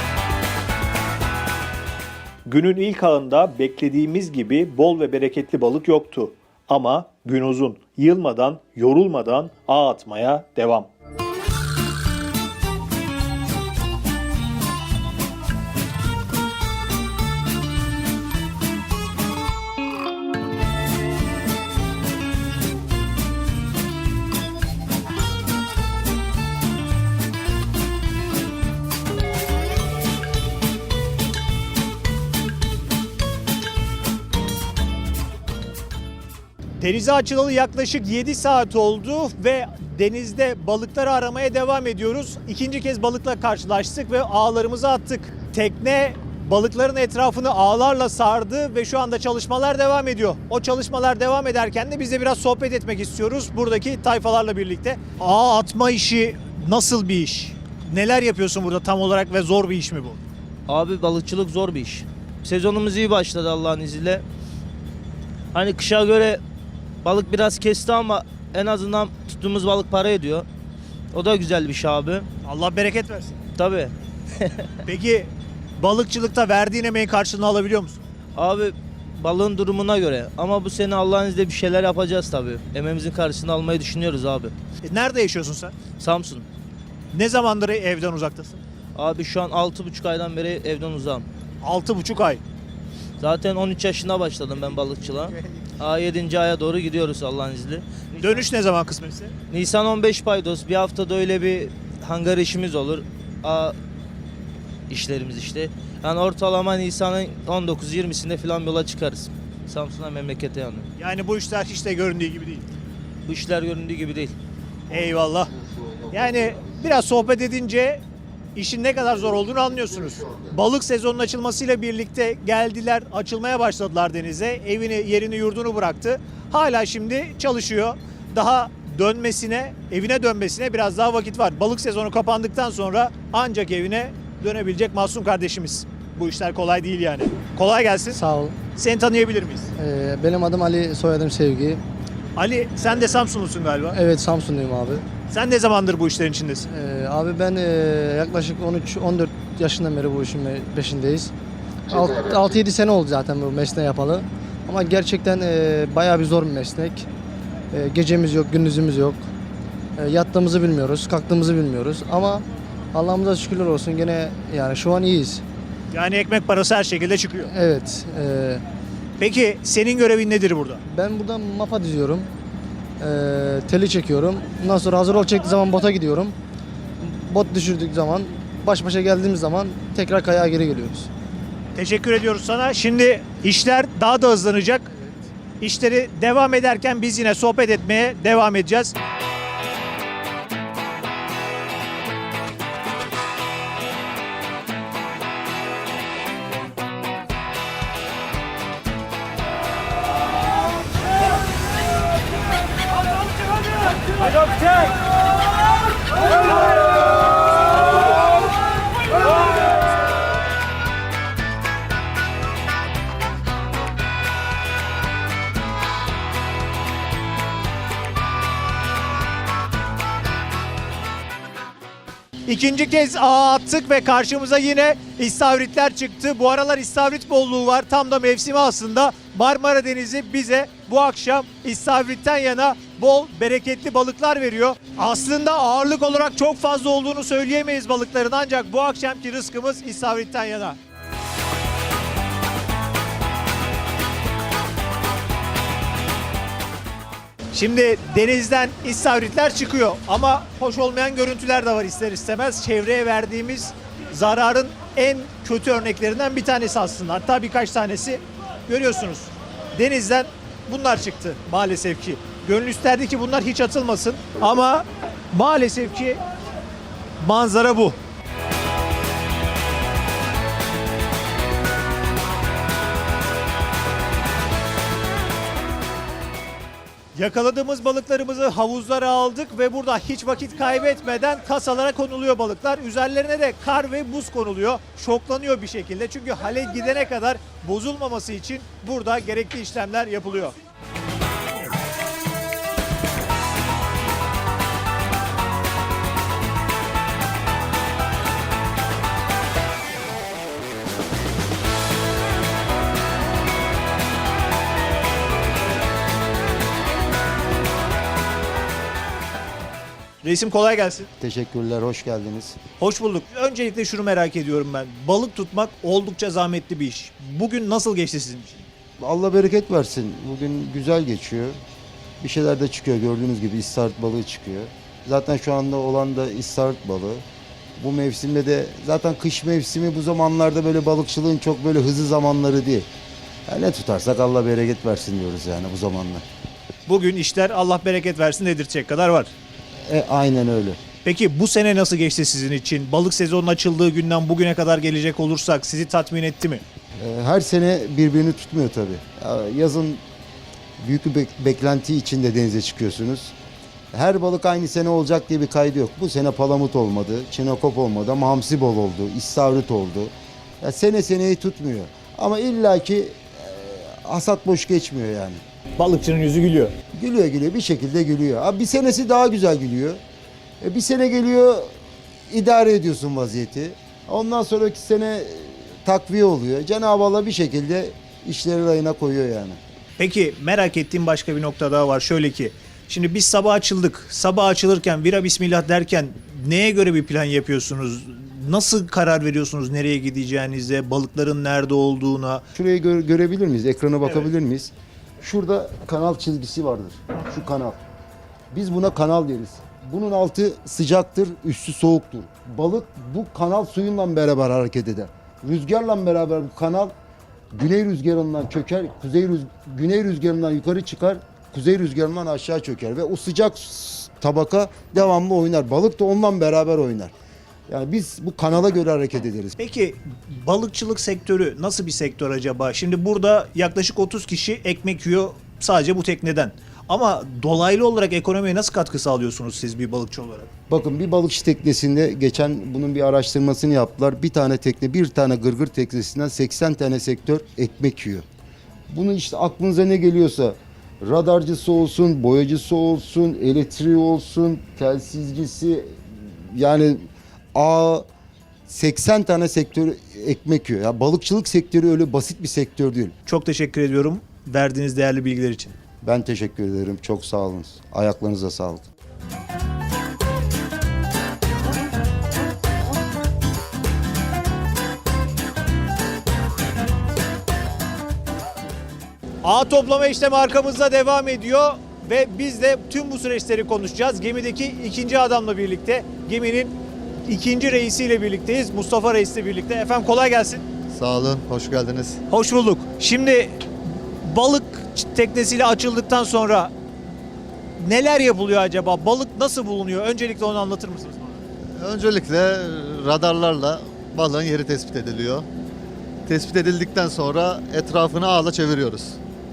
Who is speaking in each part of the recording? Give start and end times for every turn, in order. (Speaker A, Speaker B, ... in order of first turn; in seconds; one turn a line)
Speaker A: 2.5-10.9
Speaker A: 36.8-60.2
Speaker B: 60.7-64.2
Speaker B: 65.5-66.4
Speaker B: 67.0-70.5
Speaker B: 71.1-72.3
Speaker A: 72.5-73.4
Speaker B: 73.6-74.7
Speaker A: 74.9-78.0
Speaker B: 78.3-84.5
Speaker A: 84.8-85.8
Speaker B: 86.0-86.5
Speaker A: 87.1-88.6
Speaker B: 89.0-91.2
Speaker A: 91.6-92.4
Speaker B: 93.2-98.4
Speaker A: 98.2-99.3
Speaker B: 99.5-103.8
Speaker B: 104.9-110.9
Speaker A: 111.0-112.7
Speaker B: 113.2-114.3
Speaker A: 114.9-115.5
Speaker A: 116.1-118.0
Speaker A: 118.6-138.2
Speaker C: 138.1-138.6
Speaker A: 138.8-139.7
Speaker C: 139.8-141.8
Speaker A: 142.4-144.0
Speaker C: 143.9-145.0
Speaker A: 145.3-146.7
Speaker C: 146.7-151.3
Speaker C: 151.9-157.1
Speaker C: 157.7-159.2
Speaker C: 160.0-165.4
Speaker A: 165.9-167.5
Speaker C: 167.5-168.6
Speaker A: 169.2-170.8
Speaker C: 170.9-172.3
Speaker C: 173.0-176.3
Speaker C: 177.0-181.1
Speaker A: 181.8-184.9
Speaker A: 185.6-188.9
Speaker A: 204.2-204.9
Speaker A: 222.5-240.8
Speaker A: 247.5-266.2
Speaker A: 267.2-268.0
Speaker A: 277.1-290.6
Speaker A: 310.2-311.1
Speaker D: 311.2-312.6
Speaker A: 312.8-318.7
Speaker D: 319.0-321.6
Speaker D: 322.2-327.2
Speaker D: 327.8-332.9
Speaker D: 333.5-336.2
Speaker A: 336.9-339.3
Speaker D: 339.9-340.8
Speaker A: 341.1-346.6
Speaker D: 347.0-350.0
Speaker D: 350.8-353.3
Speaker D: 353.9-365.4
Speaker A: 365.8-366.7
Speaker D: 366.9-370.0
Speaker D: 370.6-371.7
Speaker D: 372.3-379.6
Speaker A: 380.0-392.5
Speaker D: 392.6-397.8
Speaker D: 398.5-406.9
Speaker D: 407.5-417.1
Speaker D: 417.7-419.6
Speaker A: 419.6-430.5
Speaker D: 430.7-438.2
Speaker D: 438.9-448.1
Speaker D: 448.7-453.1
Speaker A: 453.3-455.8
Speaker D: 456.0-458.9
Speaker A: 469.4-476.7
Speaker A: 477.2-480.6
Speaker E: 480.9-482.2
Speaker A: 482.3-483.6
Speaker A: 484.2-486.7
Speaker A: 487.8-491.4
Speaker E: 491.8-495.5
Speaker E: 496.3-499.2